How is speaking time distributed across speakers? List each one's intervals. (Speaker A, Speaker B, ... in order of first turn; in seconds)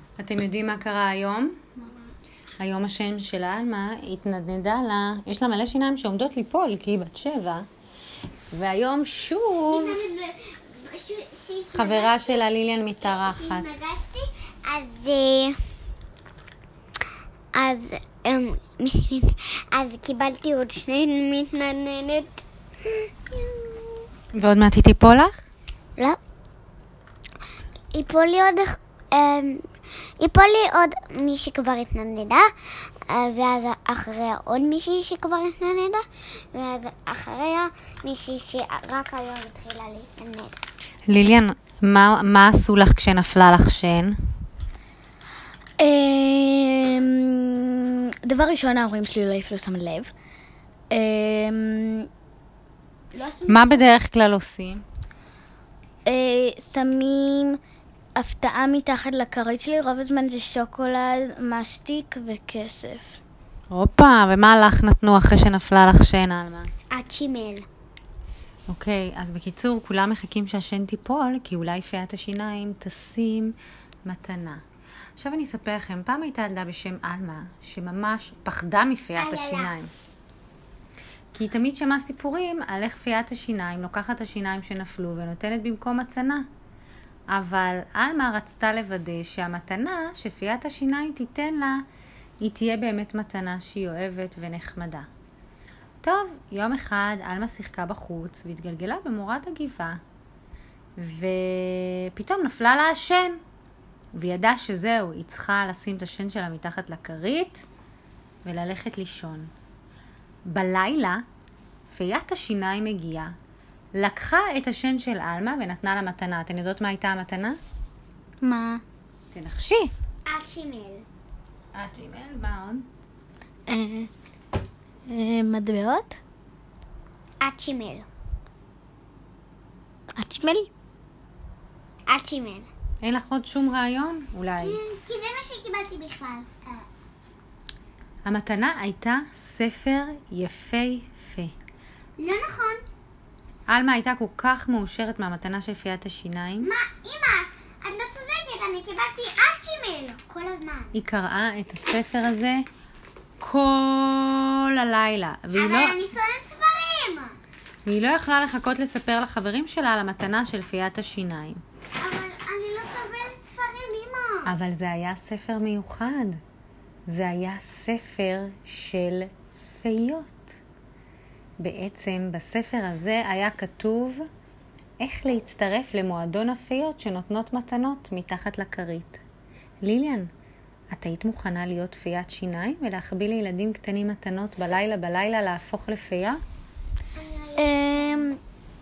Speaker A: 0.2-1.6, 2.6-7.7, 8.5-10.0, 11.7-13.7, 24.3-25.4, 41.1-44.2, 53.5-54.8, 63.7-66.7, 68.7-73.5, 74.0-74.6, 75.2-79.9, 81.3-86.5, 87.3-91.8, 92.4-95.1, 96.0-100.0, 101.0-103.4, 104.2-107.7, 108.5-109.5, 110.5-111.2, 111.9-113.3, 114.0-117.6, 119.3-119.9, 121.7-122.9, 133.0-134.8, 138.2-141.5, 143.7-146.7, 150.9-152.7, 153.4-156.0, 157.9-161.6, 164.5-166.4, 167.1-170.6, 171.6-174.3, 175.0-179.2, 179.8-180.3, 180.9-186.4
Speaker B: 9.7-12.4, 13.0-15.6, 17.6-24.1, 27.9-29.7, 30.2-32.5, 33.1-40.6, 66.9-67.7, 79.2-79.7, 120.3-121.0, 127.4-128.1, 132.1-132.7, 134.6-136.9, 142.2-142.8, 146.6-150.9, 155.6-157.3, 162.0-164.5, 187.2-188.4
Speaker C: 45.8-50.1, 50.9-52.1, 53.1-53.8, 56.0-57.6, 58.2-63.2, 118.4-118.8, 123.7-124.1, 125.1-126.2, 130.1-130.7, 187.6-188.4